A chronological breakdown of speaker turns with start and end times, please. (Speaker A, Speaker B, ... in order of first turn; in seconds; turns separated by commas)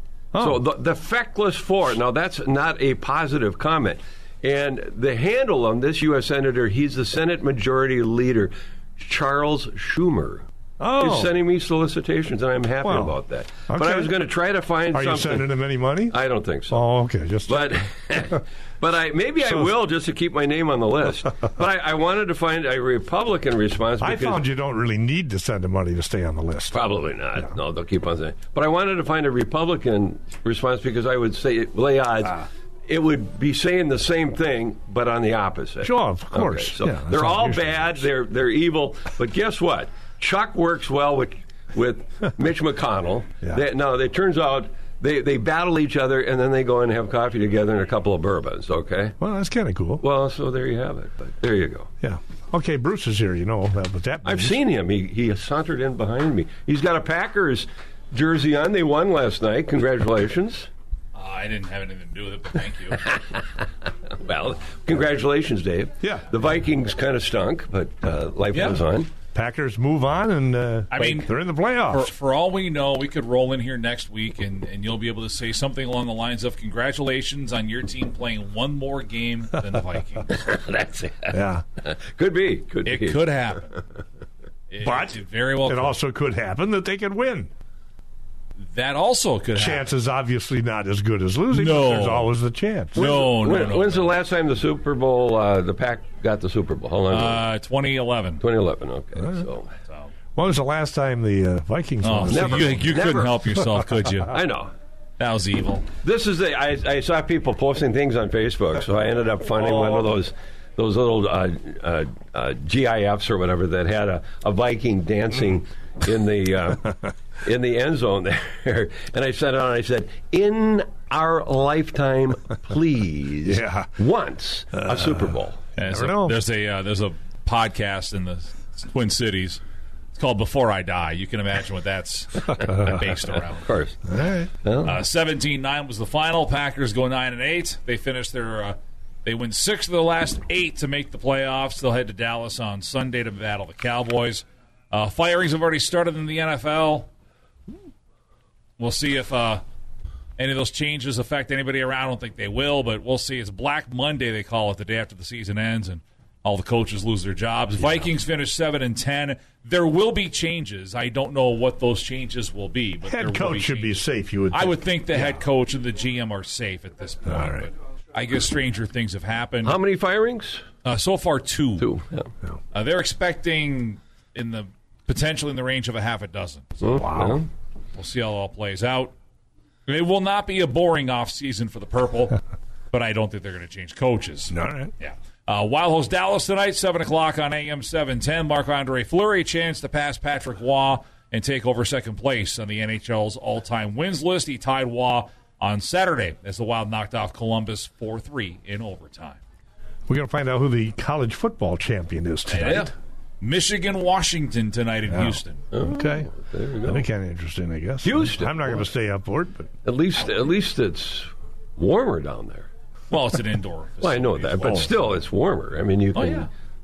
Speaker A: 0.3-0.6, Speaker B: 0.4-15.5, Speaker A: 10.8-11.3, Speaker A: 12.8-13.1, Speaker A: 13.7-14.1, Speaker A: 14.9-16.2, Speaker B: 16.1-16.9, Speaker A: 16.7-18.3, Speaker B: 17.5-24.4, Speaker A: 24.0-26.8, Speaker B: 26.7-49.2, Speaker A: 35.8-38.0, Speaker A: 49.2-50.0, Speaker B: 50.0-51.9, Speaker A: 52.0-54.6, Speaker B: 54.2-60.7, Speaker C: 61.1-63.2, Speaker B: 64.1-69.1, Speaker A: 66.0-66.3, Speaker A: 69.3-72.1, Speaker C: 70.9-71.3, Speaker C: 71.9-80.4, Speaker B: 80.3-83.2, Speaker A: 81.3-81.6, Speaker C: 82.9-83.8, Speaker C: 84.7-86.0, Speaker A: 84.8-87.5, Speaker C: 88.6-89.9, Speaker A: 89.5-93.1, Speaker C: 91.5-92.3, Speaker C: 92.9-94.2, Speaker B: 93.0-97.4, Speaker C: 97.1-98.4, Speaker B: 98.4-99.7, Speaker A: 100.4-102.9, Speaker C: 102.0-104.4, Speaker B: 102.3-103.4, Speaker B: 104.3-104.7, Speaker C: 105.2-105.9, Speaker B: 106.0-125.6, Speaker A: 109.6-110.1, Speaker A: 123.4-123.9, Speaker A: 124.7-126.4, Speaker C: 125.8-129.6, Speaker C: 130.1-133.7, Speaker A: 132.6-132.8, Speaker B: 133.6-134.0, Speaker A: 134.1-134.5, Speaker B: 134.6-135.0, Speaker C: 134.8-147.1, Speaker C: 148.8-149.6, Speaker C: 150.4-169.8, Speaker A: 163.1-165.4, Speaker A: 167.2-167.7, Speaker B: 169.6-170.6, Speaker C: 170.8-171.9, Speaker B: 171.8-172.3, Speaker C: 172.7-176.8, Speaker B: 176.8-177.4, Speaker A: 176.9-177.4, Speaker C: 178.0-179.1, Speaker C: 179.9-182.4, Speaker C: 182.9-199.4, Speaker A: 184.5-184.9, Speaker A: 200.1-202.9, Speaker C: 202.5-205.6, Speaker A: 205.1-206.3, Speaker B: 205.7-207.1, Speaker A: 206.8-209.7, Speaker B: 208.0-208.9, Speaker B: 209.8-212.7, Speaker C: 213.1-215.0, Speaker B: 214.0-216.5, Speaker A: 214.6-214.9, Speaker C: 216.1-216.5